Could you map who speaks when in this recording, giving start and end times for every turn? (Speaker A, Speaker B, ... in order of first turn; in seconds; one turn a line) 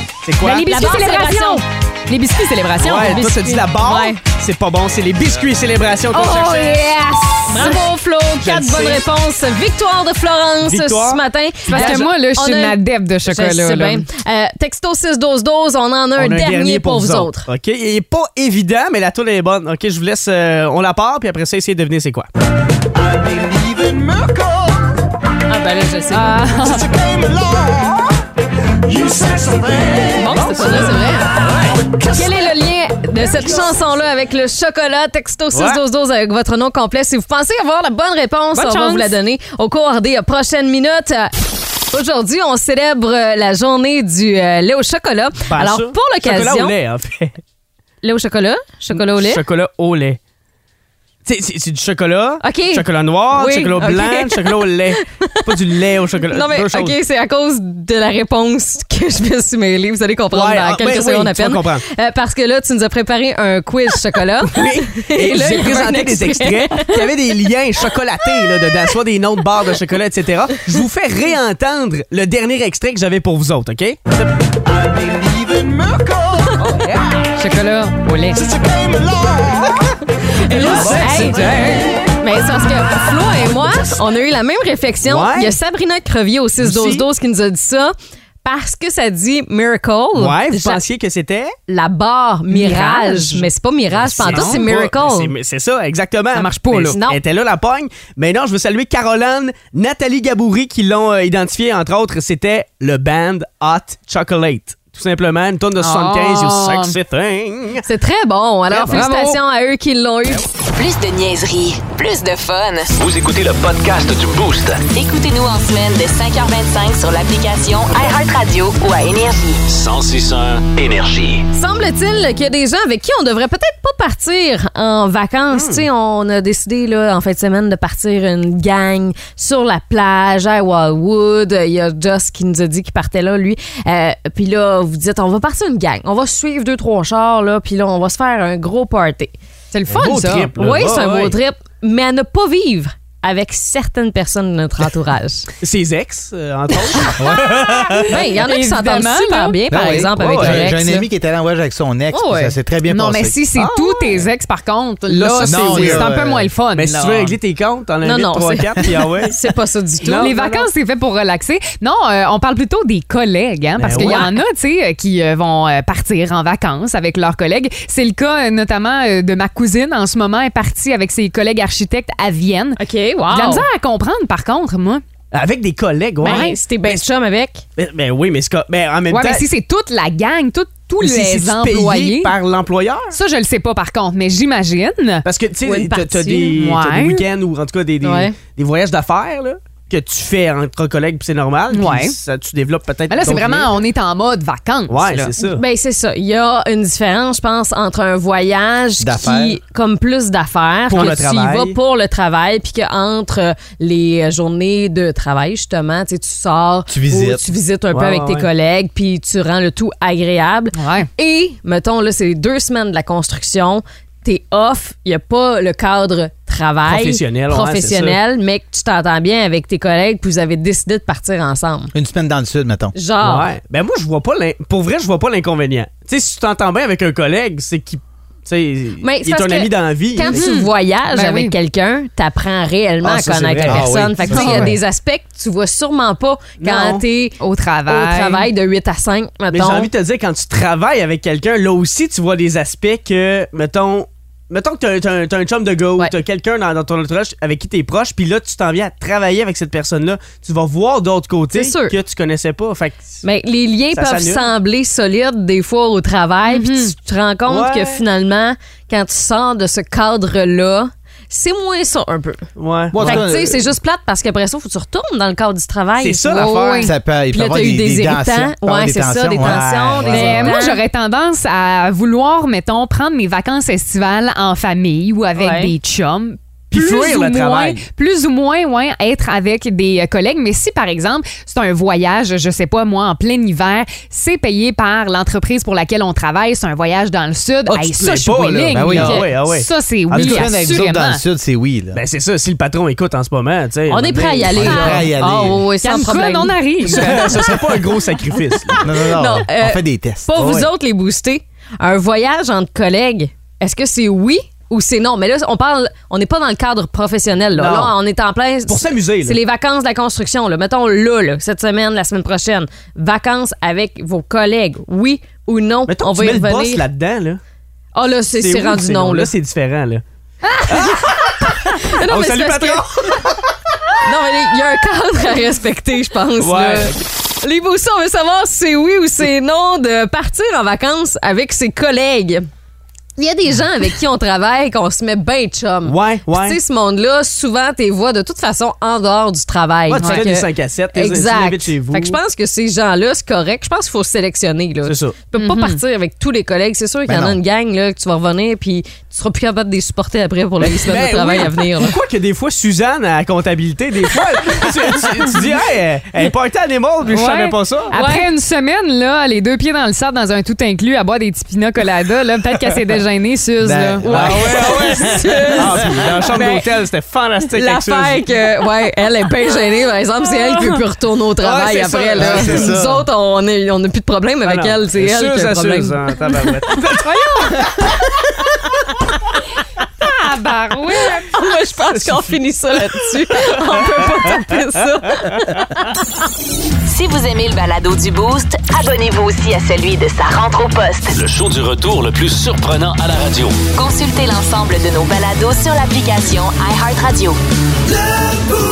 Speaker A: 0.2-0.8
Speaker B: 0.4-3.4
Speaker C: 0.7-1.6
Speaker A: 2.8-6.7
Speaker C: 2.9-4.2
Speaker C: 6.1-17.5
Speaker B: 6.3-7.9
Speaker A: 8.4-9.0
Speaker A: 10.6-12.1
Speaker B: 11.7-14.1
Speaker A: 16.2-22.3
Speaker C: 25.5-26.5
Speaker B: 26.1-27.0
Speaker C: 29.9-31.4
Speaker A: 30.2-31.8
Speaker C: 32.0-41.3
Speaker A: 35.5-35.8
Speaker B: 38.5-39.1
Speaker C: 41.9-46.8
Speaker A: 45.5-47.4
Speaker C: 48.0-49.4
Speaker A: 48.9-50.2
Speaker A: 51.2-57.0
Speaker C: 52.4-55.7
Speaker C: 56.2-67.2
Speaker A: 60.3-61.9
Speaker A: 64.4-74.2
Speaker A: 76.7-77.2
Speaker B: 77.4-78.6
Speaker C: 80.5-87.9
Speaker B: 80.5-82.1
Speaker A: 80.6-81.2
Speaker A: 85.0-85.6
Speaker A: 86.6-87.1
Speaker C: 88.4-90.8
Speaker A: 90.2-91.5
Speaker C: 91.7-95.3
Speaker B: 92.5-93.5
Speaker A: 94.0-107.9
Speaker B: 94.2-94.6
Speaker B: 96.3-97.0
Speaker C: 96.9-97.2
Speaker B: 105.8-107.0
Speaker C: 107.8-110.5
Speaker B: 108.8-109.4
Speaker D: 110.8-112.9
Speaker E: 113.0-114.8
Speaker D: 114.9-119.6
Speaker E: 119.7-121.5
Speaker C: 121.5-139.3
Speaker A: 125.5-125.9
Speaker B: 139.7-140.5
Speaker A: 139.9-141.4
Speaker C: 140.6-145.5
Speaker A: 145.6-148.1
Speaker F: 147.2-147.5
Speaker B: 147.4-149.6
Speaker C: 148.1-151.1
Speaker F: 149.7-153.4
Speaker A: 150.2-150.7
Speaker C: 152.1-152.6
Speaker B: 152.9-157.4
Speaker A: 153.6-154.3
Speaker A: 155.1-156.1
Speaker F: 155.4-156.5
Speaker A: 156.8-159.4
Speaker C: 158.0-160.7
Speaker A: 160.0-160.4
Speaker B: 160.2-175.0
Speaker A: 163.8-164.3
Speaker C: 163.9-164.4
Speaker C: 172.8-173.7
Speaker A: 175.3-177.0
Speaker C: 176.2-177.6
Speaker B: 176.2-176.6
Speaker A: 177.8-179.4
Speaker B: 179.1-182.3
Speaker A: 181.0-183.2
Speaker B: 183.1-185.2
Speaker A: 185.2-193.8
Speaker C: 185.7-186.6
Speaker B: 186.5-187.2
Speaker C: 188.0-188.3
Speaker B: 191.7-192.2
Speaker B: 193.1-195.3
Speaker A: 194.9-195.6
Speaker C: 195.4-221.9
Speaker F: 199.0-199.6
Speaker A: 200.9-201.8
Speaker F: 206.9-207.4
Speaker A: 207.9-208.5
Speaker B: 210.8-211.1
Speaker A: 216.8-218.2
Speaker F: 221.9-222.9
Speaker C: 222.9-223.5
Speaker A: 223.2-230.5
Speaker C: 229.0-239.9
Speaker B: 230.2-231.6
Speaker A: 233.0-234.0
Speaker F: 233.6-234.8
Speaker B: 234.2-234.8
Speaker A: 236.6-237.0
Speaker B: 237.4-238.5
Speaker A: 239.5-253.2
Speaker C: 251.5-252.0
Speaker C: 253.2-262.5
Speaker A: 253.9-254.5
Speaker B: 256.4-256.9
Speaker A: 257.5-258.0
Speaker A: 262.6-263.3
Speaker F: 262.9-263.6
Speaker C: 263.0-270.8
Speaker A: 266.0-266.9
Speaker B: 266.3-266.9
Speaker F: 266.8-270.4
Speaker A: 269.4-270.5
Speaker B: 270.1-291.2
Speaker C: 275.4-275.8
Speaker A: 276.7-277.9
Speaker A: 287.7-290.5
Speaker F: 288.7-289.3
Speaker F: 290.1-292.0
Speaker A: 291.9-295.0
Speaker C: 293.9-297.6
Speaker F: 294.5-295.6
Speaker B: 294.6-295.1
Speaker B: 295.8-297.5
Speaker A: 296.8-298.8
Speaker C: 298.5-316.8
Speaker F: 298.8-300.3
Speaker A: 300.4-300.7
Speaker A: 307.5-307.9
Speaker A: 308.7-309.4
Speaker A: 315.9-317.4
Speaker C: 317.9-319.3
Speaker A: 318.3-320.0
Speaker A: 320.7-323.3
Speaker C: 321.4-323.2
Speaker C: 324.0-332.5
Speaker A: 326.4-327.1
Speaker C: 333.2-352.0
Speaker A: 335.9-336.6
Speaker A: 339.9-342.2
Speaker B: 340.0-340.3
Speaker A: 344.8-345.2
Speaker B: 345.4-345.8
Speaker F: 347.1-347.4
Speaker A: 350.6-358.0
Speaker B: 357.1-364.2
Speaker C: 358.0-358.2
Speaker F: 363.6-365.6
Speaker A: 364.0-368.2
Speaker C: 364.2-366.7
Speaker C: 367.5-376.8
Speaker A: 371.4-372.8
Speaker F: 372.2-373.1
Speaker A: 374.4-377.2
Speaker B: 377.0-377.7
Speaker B: 380.0-381.4
Speaker C: 381.3-385.9
Speaker A: 381.9-382.3
Speaker D: 386.9-391.2
Speaker E: 391.1-393.6
Speaker D: 393.7-397.4